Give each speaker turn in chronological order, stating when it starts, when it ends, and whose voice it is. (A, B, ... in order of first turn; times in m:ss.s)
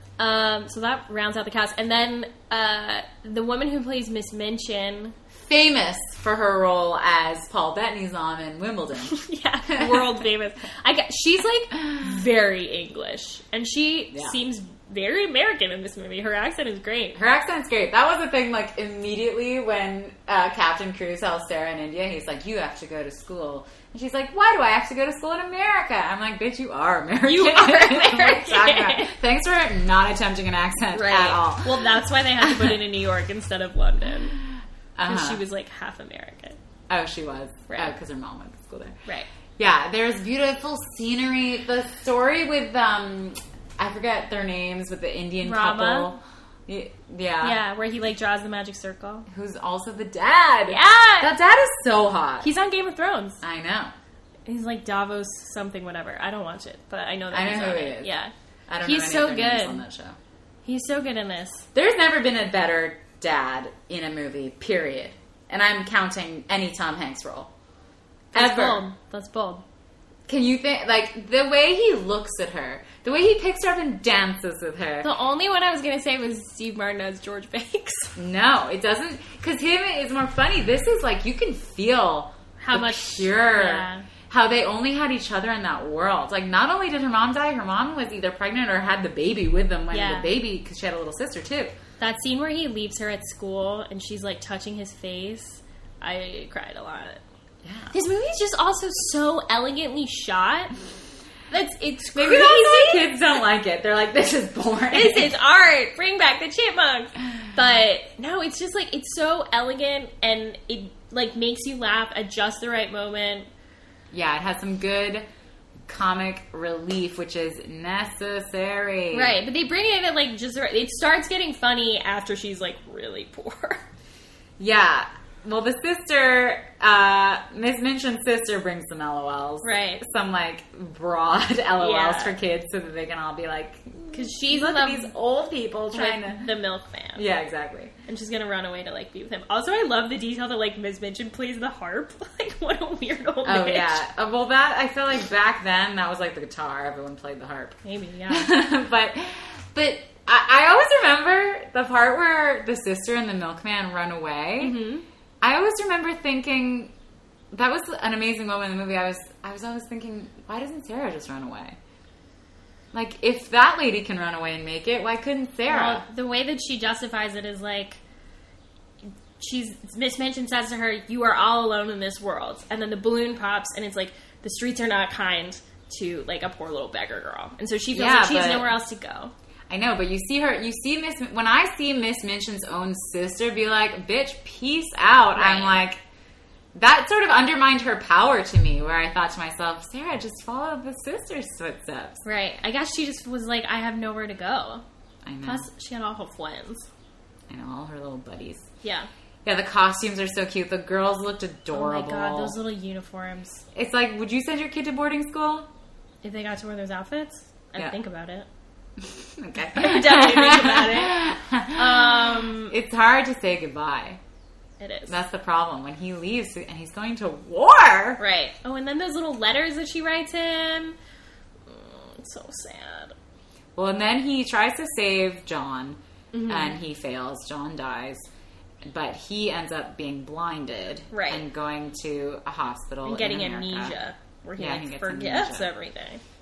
0:00.2-0:05.2 A
0:05.4-0:09.1 B
0:09.0-0:17.2 A
0:09.7-0:10.2 B
0:17.1-0:32.8 B
0:27.2-0:29.1 A
0:30.9-0:34.4 A
0:35.0-0:35.4 B
0:35.0-0:36.6 A
0:36.9-0:39.0 B
0:39.6-0:47.6 B
0:45.4-0:46.1 A
0:47.4-0:49.3 A
0:49.3-0:52.5 B
0:50.7-0:51.3 A
0:52.4-0:53.4 A
0:53.4-0:53.9 B
0:54.4-0:59.8 A
0:57.3-0:58.1 B
0:58.7-1:00.2 B
1:00.6-1:01.7 A
1:01.7-1:07.5 B
1:08.3-1:09.6 A
1:08.3-1:08.8 B
1:10.3-1:15.1 B
1:15.0-1:18.2 A
1:18.2-1:31.7 B
1:22.6-1:24.0 A
1:29.9-1:30.3 A
1:32.0-1:37.2 A
1:37.6-1:37.9 B
1:37.9-1:40.7 A
1:41.5-1:43.1 A
1:42.1-1:45.3 B
1:44.9-1:53.5 A
1:54.1-1:55.2 B
1:55.9-1:59.4 B
1:59.1-2:03.8 A
2:04.6-2:16.5 B
2:09.6-2:10.0 A
2:11.8-2:12.4 A
2:14.1-2:15.1 A
2:15.9-2:17.2 A
2:17.2-2:17.9 B
2:18.1-2:24.0 A
2:23.4-2:34.8 B
2:27.8-2:28.5 A
2:34.6-2:35.0 A
2:35.4-2:36.9 B
2:37.5-2:41.8 B
2:42.9-2:46.0 B
2:45.7-2:48.0 A
2:49.4-2:59.3 A
2:57.9-2:58.7 B
2:59.7-3:06.0 B
3:05.3-3:05.8 A
3:06.7-3:12.2 B
3:12.2-3:14.8 A
3:15.2-3:15.6 B
3:15.4-3:16.9 A
3:17.5-3:18.7 B
3:18.8-3:19.1 A
3:19.4-3:22.6 B
3:21.7-3:23.6 A
3:23.7-3:25.7 B
3:26.2-3:28.5 A
3:29.0-3:34.2 B
3:29.7-3:32.7 A
3:34.8-3:35.1 A
3:35.1-3:38.2 B
3:38.2-3:41.0 A
3:41.7-3:43.1 A
3:43.8-3:48.3 B
3:46.3-3:46.8 A
3:48.8-3:54.0 B
3:51.1-3:51.4 A
3:53.0-3:56.2 A
3:54.6-3:55.7 B